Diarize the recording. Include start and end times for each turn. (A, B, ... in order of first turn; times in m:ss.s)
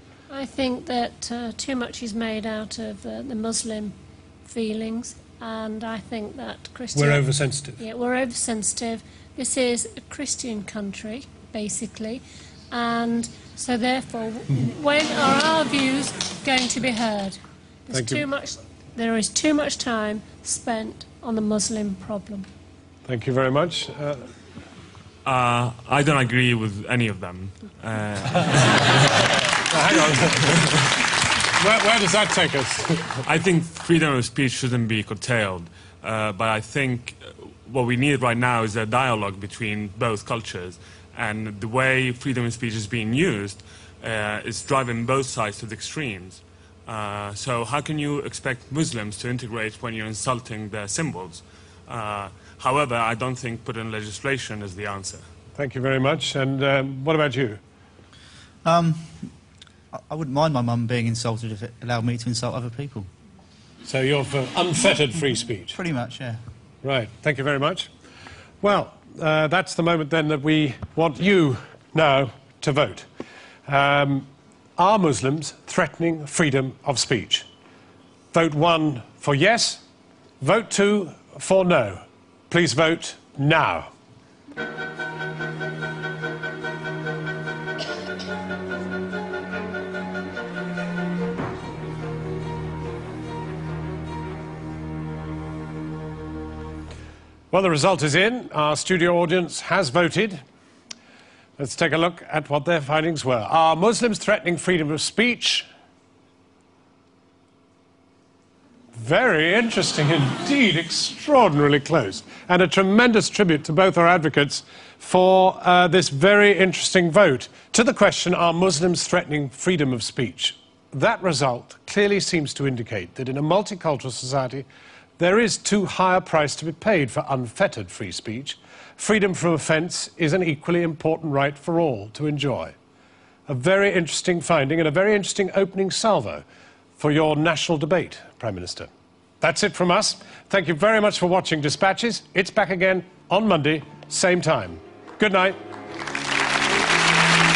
0:00.3-0:22.5 A
0:06.9-0:07.8 B
0:17.9-0:18.2 B
0:23.0-0:24.3 B
0:25.2-0:28.9 C
0:29.7-0:30.9 B
0:31.6-0:33.1 B
0:33.2-0:55.2 C
0:55.6-0:57.6 B
0:58.6-0:59.3 D
0:59.9-1:03.1 D
1:03.8-1:05.7 B
1:05.7-1:06.4 D
1:06.8-1:07.9 B
1:08.6-1:13.0 B
1:13.7-1:17.5 B
1:18.3-1:19.8 B
1:20.4-1:23.9 B
1:37.5-1:40.4 B
1:41.6-1:45.6 B
1:48.9-2:04.6 B
2:05.2-2:12.8 B
2:13.5-2:16.4 B
2:17.0-2:18.9 B
2:19.4-2:25.6 B